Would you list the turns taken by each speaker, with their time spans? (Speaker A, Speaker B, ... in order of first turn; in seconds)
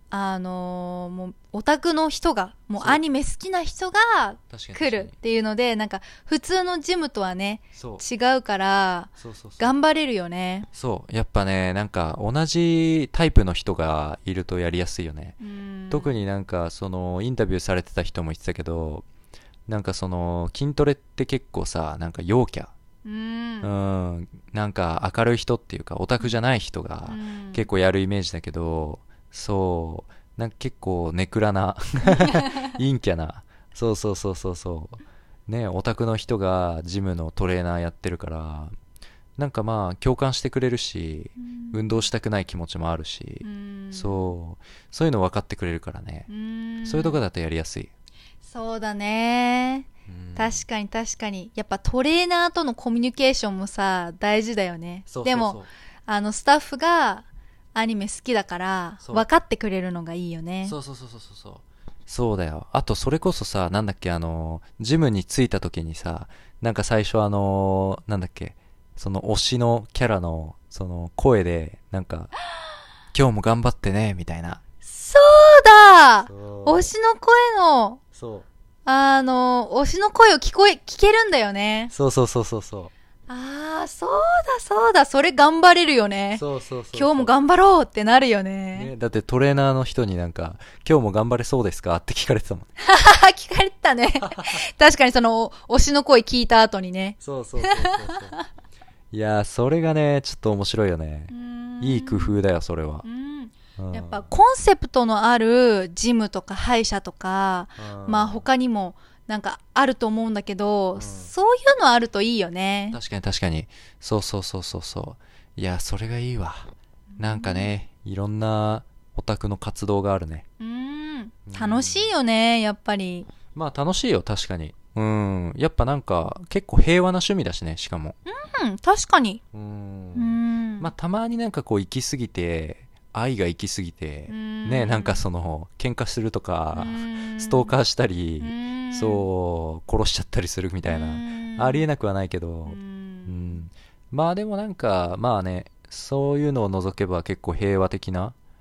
Speaker A: 0.1-10.7, 15.4-16.2, 23.1-23.7, 27.1-27.7, 32.1-32.7, 41.4-42.0, 43.4-44.4, 46.3-47.2, 48.4-60.8, 74.8-78.0, 78.9-81.9, 83.3-88.9, 92.8-98.4, 101.3-102.4, 103.0-113.0, 117.2-117.7, 120.6-123.3, 128.3-129.4, 130.2-130.9, 134.3-135.2, 136.7-137.8, 138.4-139.3, 140.8-141.9, 142.7-143.6
Speaker B: 4.5-5.1, 7.7-8.0, 9.2-9.7, 10.7-15.4, 15.9-19.1, 19.7-22.7, 23.6-38.7, 39.4-46.3, 46.9-47.9, 50.1-50.6, 55.1-55.7, 60.6-72.3, 73.1-74.6, 76.3-76.9, 78.2-78.5, 81.9-82.9, 86.3-87.3, 88.7-92.7, 97.2-98.4, 99.1-103.0, 103.8-104.3, 107.8-108.5, 111.0-111.3, 112.9-120.5, 121.5-122.1, 123.5-128.2, 129.5-148.3